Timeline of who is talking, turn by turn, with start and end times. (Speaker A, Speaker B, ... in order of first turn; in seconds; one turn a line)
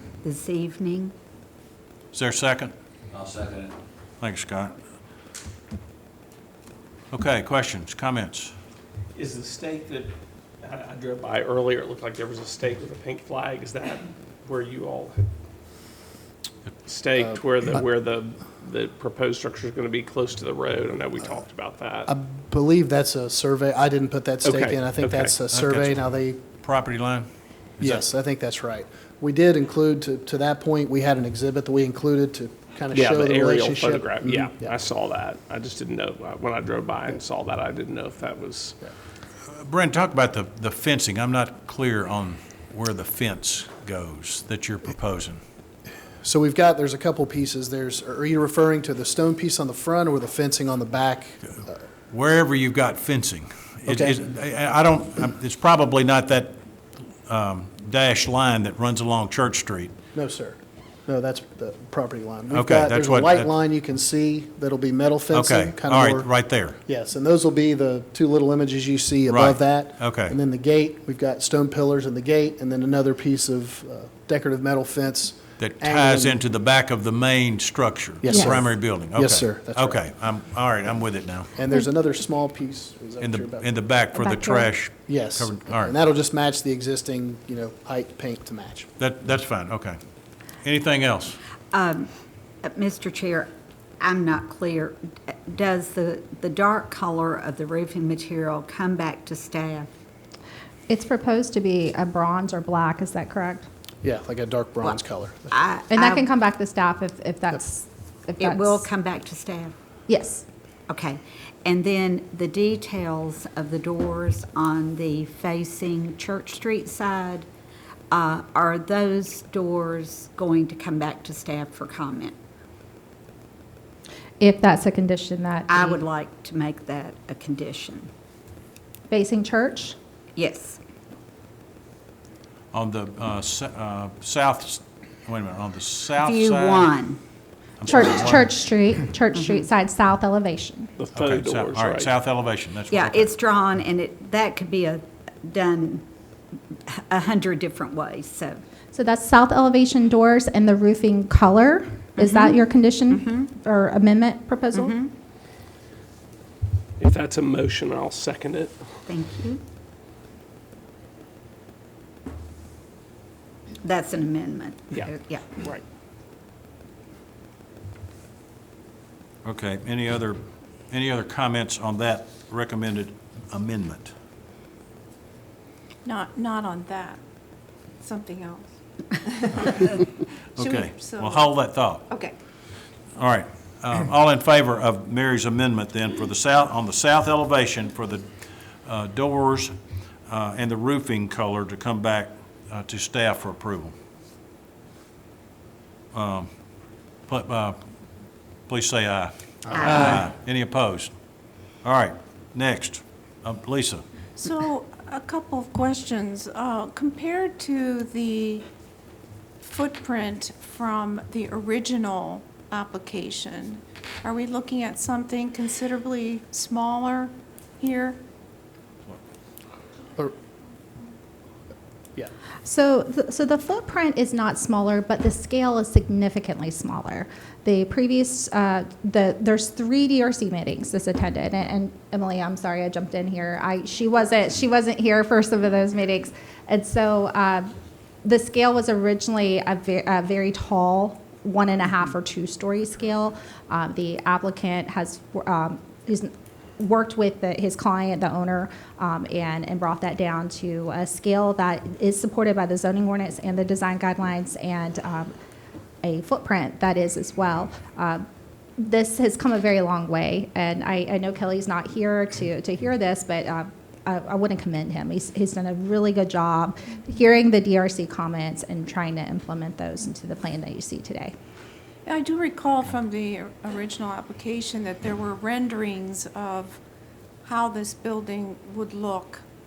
Speaker A: 0.2-1.1
Speaker B: 2.1-2.7
Speaker B: 4.2-4.8
Speaker B: 7.1-8.5
Speaker C: 9.1-15.3
Speaker C: 16.9-22.1
Speaker D: 22.1-26.4
Speaker C: 24.4-25.4
Speaker B: 25.5-28.0
Speaker D: 27.8-34.7
Speaker C: 32.9-38.8
Speaker B: 39.4-45.4
Speaker D: 46.2-51.8
Speaker B: 52.1-56.6
Speaker D: 53.9-54.2
Speaker B: 57.3-59.9
Speaker D: 60.1-66.3
Speaker B: 62.5-63.5
Speaker B: 65.3-66.8
Speaker D: 66.9-76.4
Speaker B: 69.3-70.4
Speaker B: 75.6-81.5
Speaker D: 78.2-80.0
Speaker E: 78.3-78.5
Speaker D: 81.6-83.7
Speaker B: 83.2-85.9
Speaker E: 84.1-84.7
Speaker D: 85.1-88.9
Speaker B: 89.0-90.0
Speaker B: 90.6-91.4
Speaker A: 91.7-92.1
Speaker A: 92.6-99.9
Speaker E: 100.9-103.7
Speaker D: 104.0-105.5
Speaker A: 105.5-106.3
Speaker E: 105.9-108.8
Speaker A: 108.4-109.7
Speaker E: 110.1-110.5
Speaker A: 110.9-117.5
Speaker A: 118.1-122.4
Speaker E: 124.4-126.0
Speaker A: 125.7-128.1
Speaker E: 129.1-130.0
Speaker A: 130.4-130.8
Speaker B: 132.7-136.9
Speaker A: 136.2-137.2
Speaker B: 137.8-138.6
Speaker E: 137.9-140.9
Speaker C: 141.0-142.1
Speaker B: 141.1-143.3
Speaker A: 142.9-146.1
Speaker A: 146.9-148.6
Speaker E: 148.9-155.0
Speaker A: 152.2-152.6
Speaker C: 157.0-158.8
Speaker A: 159.1-159.6
Speaker A: 163.8-165.7
Speaker C: 164.9-165.8
Speaker B: 169.4-174.1
Speaker F: 176.1-177.2
Speaker F: 178.0-178.7
Speaker F: 179.2-180.0
Speaker B: 180.6-182.1
Speaker F: 180.6-181.5
Speaker F: 182.1-182.3
Speaker B: 183.1-188.3
Speaker B: 188.8-189.7
Speaker B: 190.2-193.9
Speaker B: 196.1-196.5
Speaker B: 197.3-197.8
Speaker B: 198.7-201.1
Speaker D: 199.7-200.2
Speaker B: 201.8-204.0
Speaker F: 204.4-208.7
Speaker F: 209.6-218.2
Speaker E: 222.7-237.7
Speaker E: 238.2-255.3
Speaker E: 256.0-258.2
Speaker E: 258.8-271.3
Speaker F: 272.1-276.8
Speaker F: 277.4-279.4